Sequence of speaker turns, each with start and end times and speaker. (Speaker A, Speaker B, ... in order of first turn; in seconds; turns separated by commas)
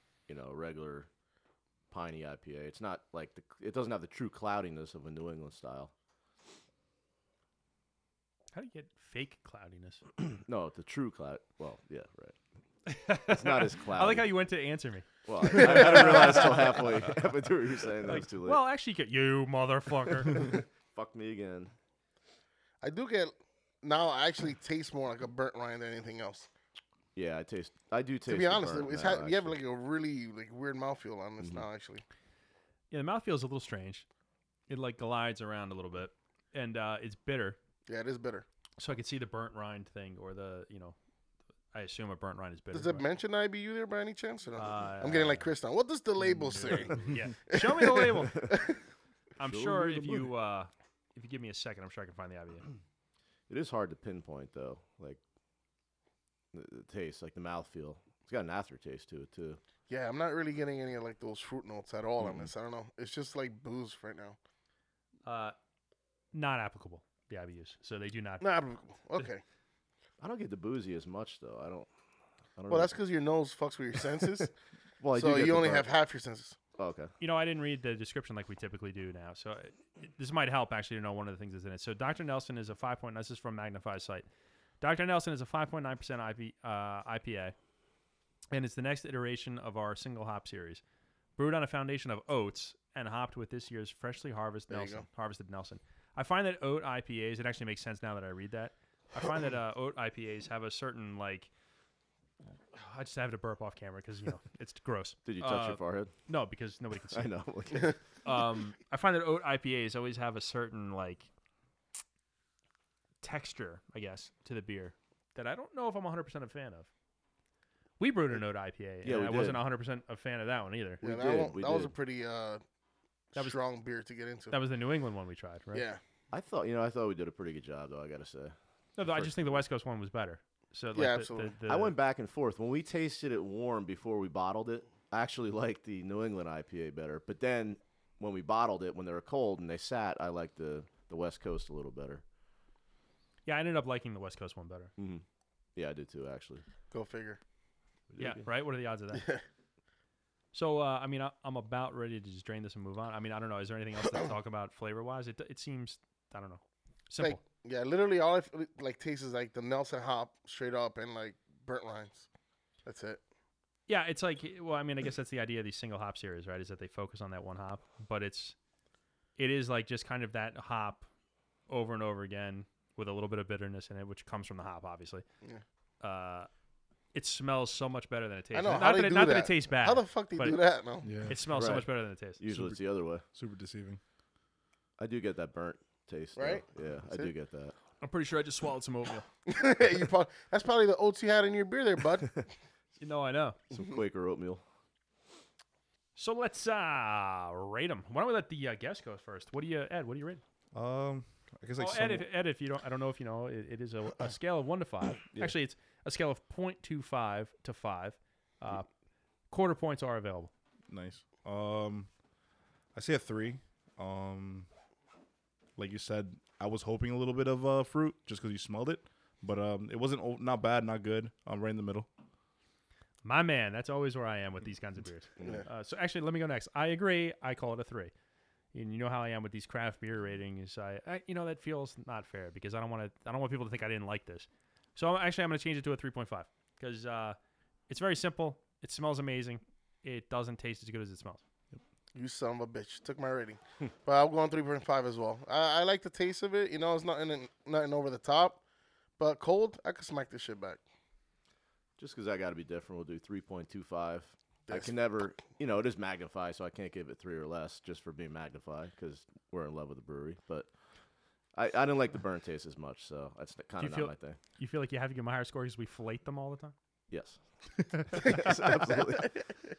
Speaker A: 0.3-1.1, Speaker A: 1.9-5.9, Speaker B: 8.5-10.0, Speaker A: 10.3-12.3, Speaker B: 12.8-16.8, Speaker A: 13.3-14.3, Speaker A: 15.2-18.6, Speaker B: 18.0-20.5, Speaker A: 20.3-21.7, Speaker C: 22.8-26.5, Speaker A: 27.1-29.6, Speaker C: 28.3-32.0, Speaker B: 32.9-34.0, Speaker B: 34.7-37.6, Speaker C: 37.9-38.5, Speaker B: 38.8-41.0, Speaker B: 41.7-43.0, Speaker C: 42.7-48.8, Speaker B: 44.6-45.5, Speaker B: 47.0-48.5, Speaker B: 49.4-52.7, Speaker A: 49.4-50.3, Speaker A: 53.5-55.2, Speaker A: 56.5-59.6, Speaker C: 59.9-64.4, Speaker A: 62.2-62.5, Speaker B: 65.2-65.5, Speaker B: 66.3-68.4, Speaker C: 68.4-69.4, Speaker A: 70.2-71.9, Speaker A: 72.6-72.9, Speaker C: 72.7-74.5, Speaker A: 75.0-75.9, Speaker C: 75.1-76.6, Speaker A: 76.8-77.1, Speaker B: 77.2-84.2, Speaker B: 84.8-87.5, Speaker B: 88.5-90.8, Speaker B: 91.4-101.5, Speaker C: 94.7-95.0, Speaker B: 102.7-107.3, Speaker A: 105.2-106.1, Speaker A: 107.1-108.0, Speaker B: 108.2-111.3, Speaker B: 113.2-116.9, Speaker B: 118.0-121.0, Speaker A: 119.0-119.6, Speaker C: 121.0-122.6, Speaker A: 121.0-121.9, Speaker C: 123.3-124.5, Speaker B: 124.5-125.8, Speaker C: 125.7-126.0, Speaker A: 126.3-129.5, Speaker B: 128.9-131.9, Speaker C: 130.9-131.5, Speaker A: 131.7-142.2, Speaker B: 143.4-144.9, Speaker A: 145.0-145.2, Speaker A: 145.8-146.6, Speaker C: 146.9-147.4, Speaker A: 148.1-148.4, Speaker B: 148.2-149.2, Speaker C: 149.1-149.4, Speaker B: 150.5-157.4, Speaker C: 157.2-162.3, Speaker C: 162.8-163.2, Speaker B: 163.9-168.6, Speaker B: 169.4-171.1, Speaker B: 171.7-175.2, Speaker B: 176.0-176.5, Speaker B: 177.1-180.6, Speaker C: 178.5-181.1, Speaker D: 181.0-181.4, Speaker B: 181.2-182.4, Speaker A: 181.4-183.2, Speaker D: 182.5-182.8, Speaker D: 183.3-184.0, Speaker A: 185.0-187.7, Speaker C: 186.3-187.3, Speaker B: 188.0-189.2, Speaker C: 189.5-192.4, Speaker B: 193.0-193.6, Speaker A: 193.7-194.6, Speaker B: 196.2-200.4, Speaker D: 200.7-202.2, Speaker B: 201.8-208.9, Speaker B: 209.5-210.5, Speaker D: 210.9-212.1, Speaker D: 212.9-214.7, Speaker D: 215.8-222.1, Speaker B: 223.2-228.1, Speaker B: 228.7-237.4, Speaker B: 237.9-241.4, Speaker C: 242.1-248.6, Speaker C: 249.2-250.8, Speaker A: 252.0-260.7, Speaker A: 261.5-264.4, Speaker B: 263.8-266.7, Speaker A: 267.1-269.4